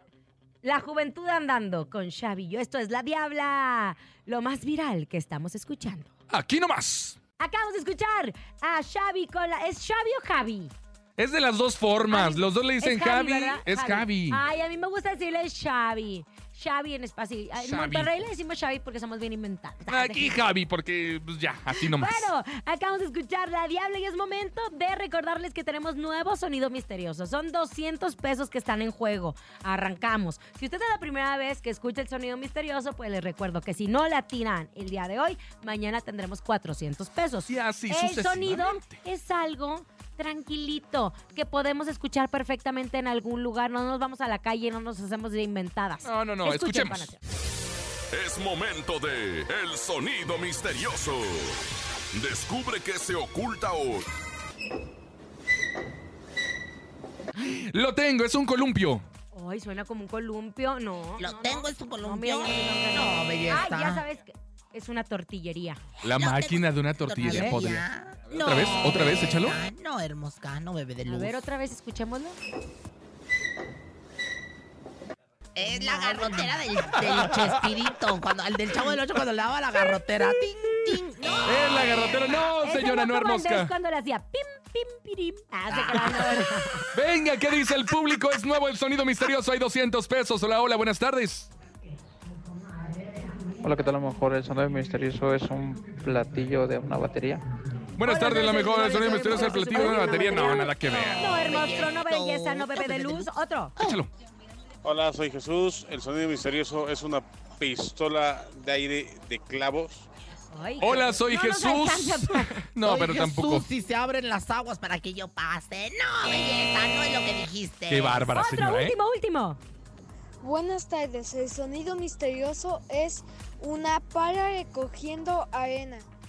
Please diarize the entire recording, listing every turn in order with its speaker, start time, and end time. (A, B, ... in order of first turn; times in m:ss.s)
0:00.6-0:06.1 A
0:06.3-0:07.2 B
0:07.4-0:10.7 A
0:11.2-0:14.4 B
0:12.1-0:20.4 A
0:17.6-0:18.1 B
0:19.9-0:22.3 B
0:21.7-0:47.2 A
0:37.5-0:39.0 B
0:46.0-0:47.1 B
0:48.1-0:51.6 C
0:52.1-0:54.1 C
0:57.4-0:59.0 B
0:59.3-1:05.8 A
1:01.2-1:04.0 D
1:06.0-1:09.6 B
1:06.1-1:11.4 D
1:07.2-1:07.6 A
1:11.0-1:12.4 A
1:15.5-1:22.2 D
1:15.6-1:16.4 A
1:20.2-1:20.9 A
1:21.4-1:23.7 B
1:22.6-1:26.9 A
1:25.7-1:26.8 D
1:26.9-1:31.5 B
1:33.6-1:37.4 E
1:38.0-1:41.3 B
1:38.0-1:43.7 A
1:40.9-1:43.9 D
1:43.8-1:44.1 B
1:44.8-1:50.0 F
1:50.5-1:52.6 A
1:50.8-1:53.6 B
1:52.8-1:58.4 D
1:57.9-1:58.9 B
1:58.4-1:59.6 A
2:00.4-2:06.0 G